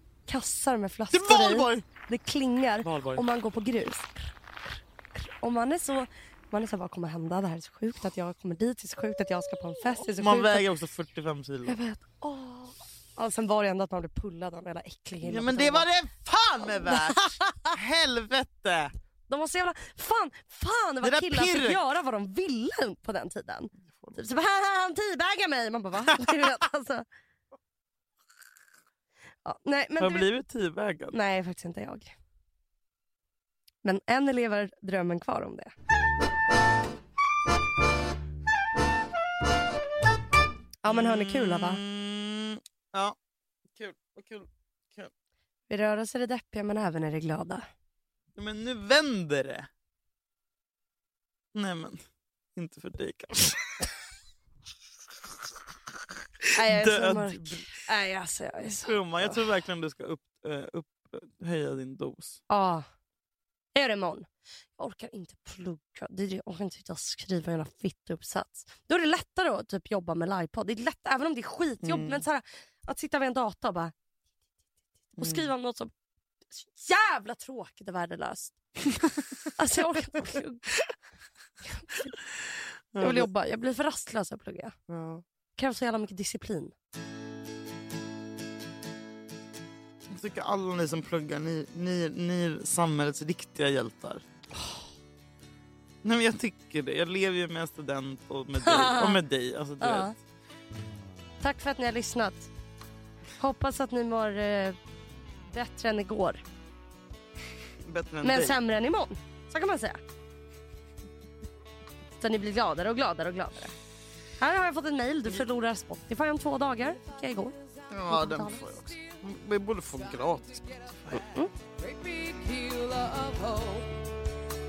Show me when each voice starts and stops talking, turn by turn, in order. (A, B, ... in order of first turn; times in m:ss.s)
0:00.3-0:10.6 A
0:01.1-0:01.8 B
0:02.8-0:03.2 B
0:10.2-0:11.8 B
0:11.6-0:15.9 A
0:15.2-0:18.9 B
0:16.8-0:17.7 A
0:19.3-0:27.0 A
0:21.0-0:21.8 B
0:23.8-0:24.2 B
0:29.4-0:30.3 A
0:30.0-0:31.2 B
0:31.1-0:32.1 A
0:33.8-0:35.7 A
0:40.8-0:41.8 A
0:40.8-0:43.2 B
0:43.8-0:45.1 B
0:45.7-0:47.6 A
0:48.4-0:49.7 B
0:51.5-0:52.0 B
0:52.6-0:53.6 B
0:56.4-0:57.7 B
0:56.6-0:59.4 A
0:58.7-1:02.4 B
1:02.5-1:02.8 A
1:03.7-1:04.3 A
1:04.8-1:13.9 A
1:11.8-1:12.2 B
1:15.2-1:15.9 A
1:15.2-1:15.5 B
1:16.5-1:18.6 A
1:19.0-1:19.4 B
1:19.6-1:20.8 A
1:21.6-1:22.2 A
1:22.9-1:23.3 B
1:23.0-1:24.8 A
1:24.9-1:25.2 B
1:25.6-1:26.7 A
1:30.1-1:34.2 B
1:36.0-1:40.1 B
1:38.6-1:39.2 A
1:39.8-1:40.1 A
1:41.4-1:42.5 A
1:43.4-1:44.8 A
1:45.5-1:46.4 A
1:47.8-1:48.6 B
1:48.2-1:50.0 A
1:52.2-1:53.7 A
1:54.4-1:58.6 A
1:56.8-2:03.9 C
1:57.9-2:01.2 B